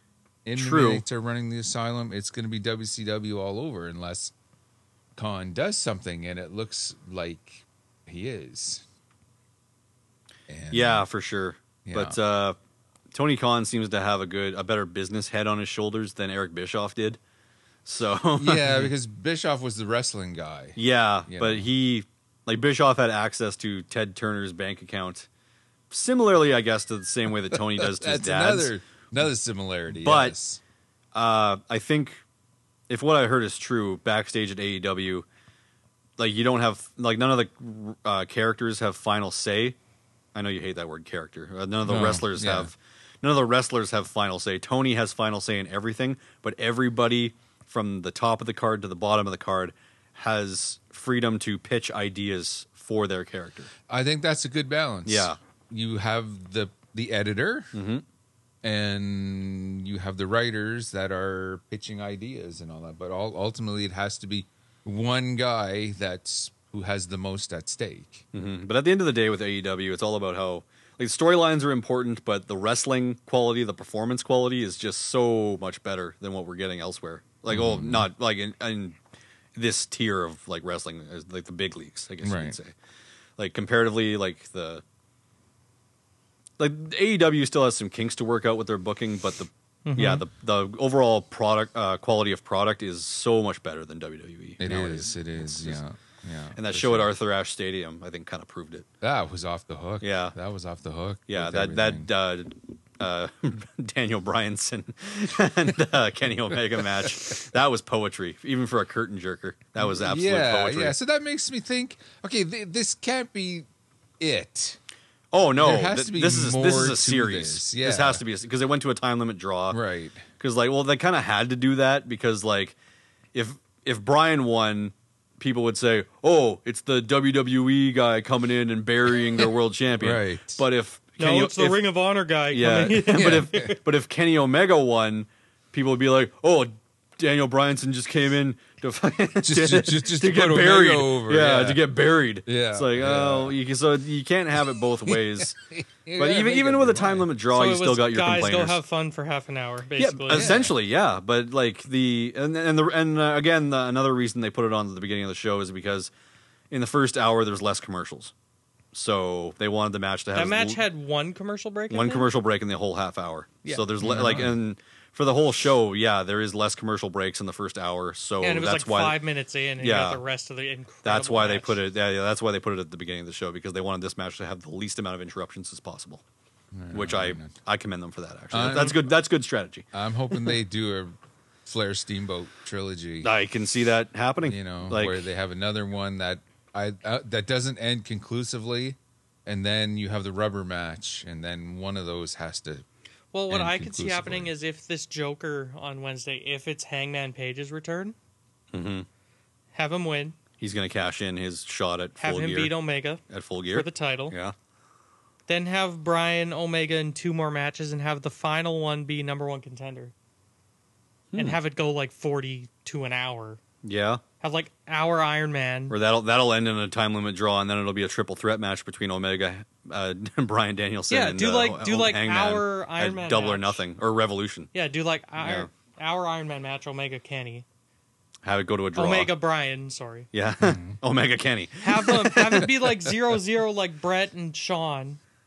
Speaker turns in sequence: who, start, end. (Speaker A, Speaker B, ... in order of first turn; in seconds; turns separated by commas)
Speaker A: 0.4-4.3, Speaker B: 0.6-1.0, Speaker A: 5.2-8.8, Speaker A: 10.5-11.0, Speaker B: 10.7-12.6, Speaker A: 11.8-12.2, Speaker B: 13.1-17.2, Speaker B: 17.9-18.9, Speaker A: 18.4-21.7, Speaker B: 20.8-25.3, Speaker B: 25.9-28.7, Speaker A: 27.5-30.6, Speaker B: 30.0-30.3, Speaker B: 31.1-32.2, Speaker B: 32.9-35.2, Speaker B: 36.2-39.8, Speaker B: 40.3-53.7, Speaker A: 41.8-42.7, Speaker A: 53.9-57.7, Speaker B: 55.0-55.4, Speaker B: 57.7-58.0, Speaker A: 58.6-68.2, Speaker B: 68.3-79.0, Speaker A: 77.5-78.1, Speaker B: 79.5-82.7, Speaker A: 82.2-82.6, Speaker B: 83.4-84.8, Speaker B: 86.6-95.8, Speaker C: 89.8-90.2, Speaker A: 94.6-97.1, Speaker B: 96.5-98.9, Speaker A: 99.0-102.1, Speaker B: 100.0-100.3, Speaker B: 101.3-110.9, Speaker A: 109.8-113.7, Speaker A: 114.2-114.8, Speaker B: 115.3-119.8, Speaker A: 115.6-118.2, Speaker A: 119.7-120.2, Speaker B: 120.4-122.7, Speaker B: 123.3-131.8, Speaker A: 130.0-130.6, Speaker C: 131.2-133.8, Speaker B: 132.5-145.6, Speaker A: 133.1-133.7, Speaker A: 139.4-141.9, Speaker A: 142.4-143.6, Speaker A: 145.1-147.3, Speaker B: 146.2-148.8, Speaker C: 147.5-150.6, Speaker B: 150.0-156.1, Speaker A: 150.3-150.7, Speaker B: 156.7-158.3, Speaker B: 158.9-160.8, Speaker C: 160.3-162.3, Speaker B: 161.9-169.2, Speaker A: 164.0-164.6, Speaker C: 168.4-171.8, Speaker B: 169.8-170.2, Speaker B: 171.0-176.2, Speaker A: 176.7-177.6, Speaker B: 176.9-179.8, Speaker A: 178.5-179.2, Speaker A: 179.9-183.3, Speaker B: 183.2-185.2, Speaker A: 184.4-192.8, Speaker C: 193.3-198.2, Speaker A: 193.5-194.5, Speaker B: 198.7-199.1, Speaker C: 199.7-200.3, Speaker B: 200.6-202.7, Speaker C: 202.2-203.2, Speaker B: 203.3-204.5, Speaker C: 203.7-204.3, Speaker C: 205.5-210.1, Speaker B: 211.3-211.6, Speaker C: 211.4-213.6, Speaker B: 213.8-214.2, Speaker C: 214.4-215.9, Speaker B: 215.9-224.7, Speaker C: 221.1-223.8, Speaker C: 224.7-227.6, Speaker B: 225.4-225.7, Speaker B: 228.4-229.3, Speaker C: 228.9-230.3, Speaker B: 230.3-232.7, Speaker A: 230.6-231.0, Speaker C: 231.8-235.2